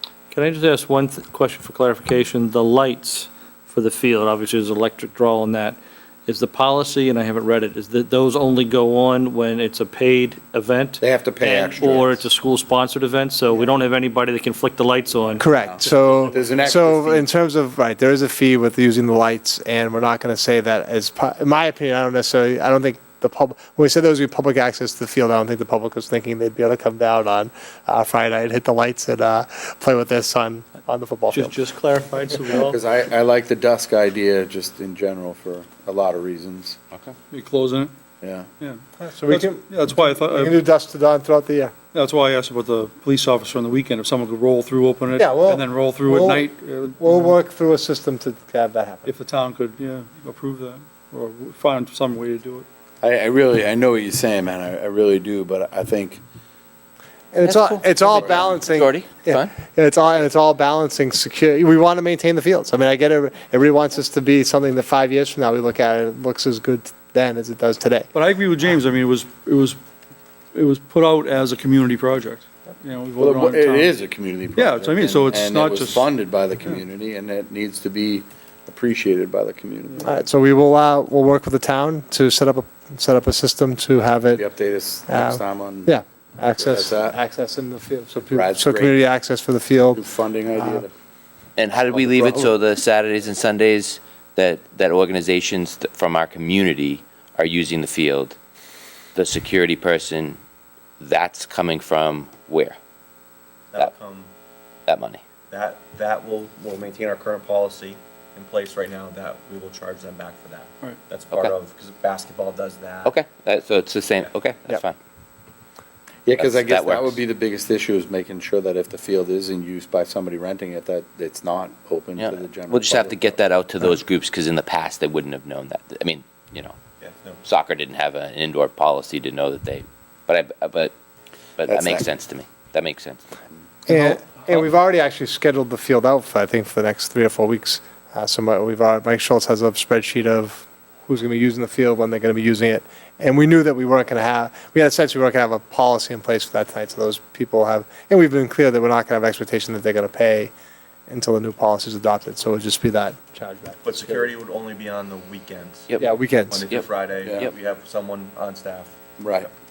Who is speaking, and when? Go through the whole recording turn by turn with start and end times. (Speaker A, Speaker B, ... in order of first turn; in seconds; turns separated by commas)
Speaker A: 0.3-15.9, Speaker B: 11.0-12.3, Speaker C: 15.4-31.5, Speaker B: 15.6-17.3, Speaker A: 31.3-32.8, Speaker B: 32.5-36.8, Speaker D: 37.3-37.9, Speaker B: 38.2-38.5, Speaker D: 38.6-40.6, Speaker C: 39.0-39.6, Speaker C: 40.2-41.7, Speaker D: 41.9-47.3, Speaker C: 45.1-49.1, Speaker D: 49.0-52.6, Speaker B: 53.0-56.2, Speaker C: 57.3-68.1, Speaker E: 57.4-59.5, Speaker D: 68.1-69.8, Speaker D: 70.5-73.9, Speaker B: 73.2-80.1, Speaker D: 74.5-76.8, Speaker C: 80.0-84.4, Speaker B: 84.4-85.9, Speaker C: 85.1-90.8, Speaker B: 86.6-87.2, Speaker B: 88.3-89.0, Speaker B: 89.9-90.9, Speaker E: 91.6-98.4, Speaker B: 91.9-92.5, Speaker E: 99.2-100.4, Speaker E: 101.0-102.8, Speaker F: 103.7-104.3, Speaker E: 104.9-105.2, Speaker F: 105.5-113.1, Speaker E: 113.0-115.0, Speaker B: 116.2-123.4, Speaker E: 116.3-117.2, Speaker E: 122.2-126.8, Speaker F: 127.0-127.4, Speaker E: 127.4-130.9, Speaker E: 131.6-133.2, Speaker B: 131.7-132.1, Speaker C: 133.9-150.5, Speaker C: 151.1-154.3, Speaker F: 153.8-159.5, Speaker C: 156.0-156.6, Speaker E: 156.7-157.5, Speaker B: 157.2-157.5, Speaker B: 159.2-159.5